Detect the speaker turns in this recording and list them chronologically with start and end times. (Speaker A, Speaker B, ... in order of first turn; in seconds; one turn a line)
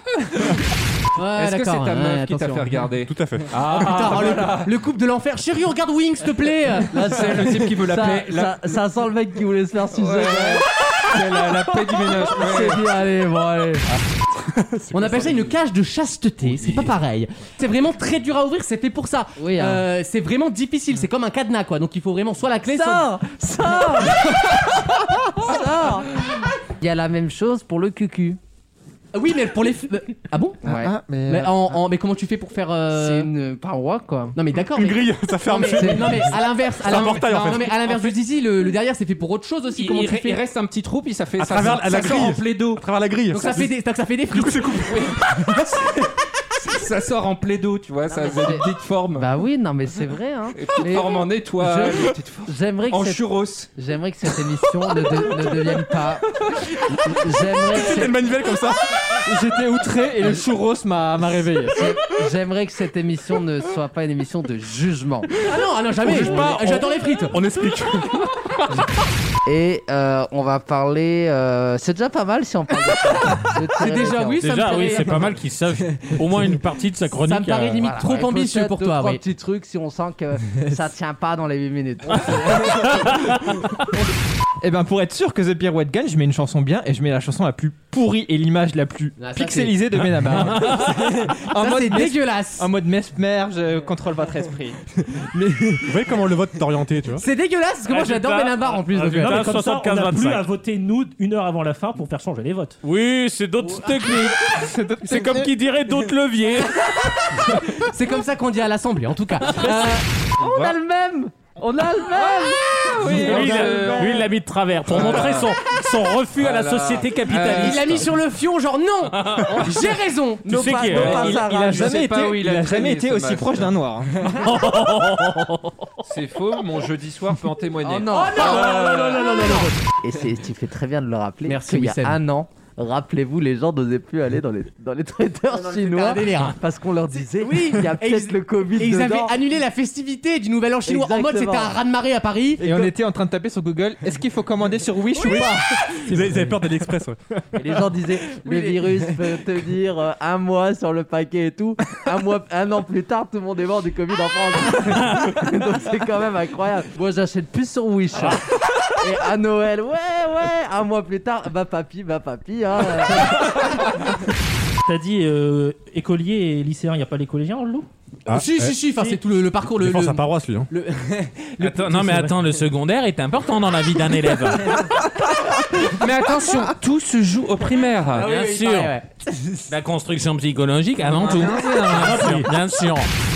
Speaker A: 1.1-2.8
Speaker B: 1.4-4.7
Speaker C: 3.0-3.5
Speaker A: 3.6-6.9
Speaker B: 6.9-8.6
Speaker D: 7.0-13.9
Speaker B: 9.9-12.8
Speaker C: 14.8-15.5
Speaker A: 14.9-23.1
Speaker D: 19.4-19.9
Speaker D: 22.7-24.8
Speaker D: 25.3-26.1
Speaker D: 26.8-28.4
Speaker A: 29.1-30.6
Speaker D: 30.6-30.9
Speaker E: 30.6-31.6
Speaker A: 31.3-33.3
Speaker D: 32.9-34.4
Speaker A: 34.4-40.4
Speaker C: 34.7-38.1
Speaker B: 37.1-37.5
Speaker B: 39.8-42.8
Speaker C: 41.4-43.7
Speaker A: 43.3-45.8
Speaker C: 44.3-45.7
Speaker B: 46.6-49.3
Speaker D: 48.1-48.6
Speaker D: 49.1-58.2
Speaker B: 50.5-53.7
Speaker C: 57.7-59.0
Speaker E: 59.2-61.9
Speaker D: 61.7-65.3
Speaker A: 65.5-67.4
Speaker C: 66.0-68.8
Speaker D: 69.5-75.1
Speaker A: 73.8-75.3
Speaker F: 74.4-78.1
Speaker A: 77.2-79.2
Speaker D: 77.8-83.4
Speaker E: 84.6-94.8
Speaker A: 89.2-89.8
Speaker A: 90.6-92.7
Speaker C: 95.8-97.2
Speaker A: 97.2-99.4
Speaker F: 97.9-100.5
Speaker G: 99.2-102.8
Speaker F: 102.8-107.3
Speaker E: 104.5-105.5
Speaker A: 107.5-110.0
Speaker B: 110.4-110.8
Speaker D: 110.4-114.0
Speaker B: 112.1-114.3
Speaker E: 113.1-114.2
Speaker F: 113.1-118.0
Speaker B: 114.9-115.5
Speaker B: 116.4-118.1
Speaker A: 117.5-120.5
Speaker F: 119.2-119.7
Speaker F: 120.5-121.8
Speaker D: 120.5-122.0
Speaker E: 120.5-124.2
Speaker B: 120.9-123.7
Speaker F: 124.4-125.7
Speaker B: 126.0-129.2
Speaker D: 127.8-128.8
Speaker A: 128.1-129.7
Speaker D: 130.0-139.3
Speaker A: 131.4-132.2
Speaker A: 135.5-136.6
Speaker A: 137.4-142.9
Speaker D: 140.9-141.8
Speaker E: 142.6-146.2
Speaker C: 145.2-147.2
Speaker D: 147.5-163.8
Speaker A: 148.4-148.9
Speaker G: 164.9-167.9
Speaker C: 168.3-168.9
Speaker A: 168.3-172.3
Speaker C: 169.7-170.7
Speaker F: 171.6-174.8
Speaker B: 175.8-178.3
Speaker A: 178.2-179.7
Speaker F: 178.2-178.9
Speaker F: 179.7-183.1
Speaker B: 181.0-182.3
Speaker G: 182.2-182.5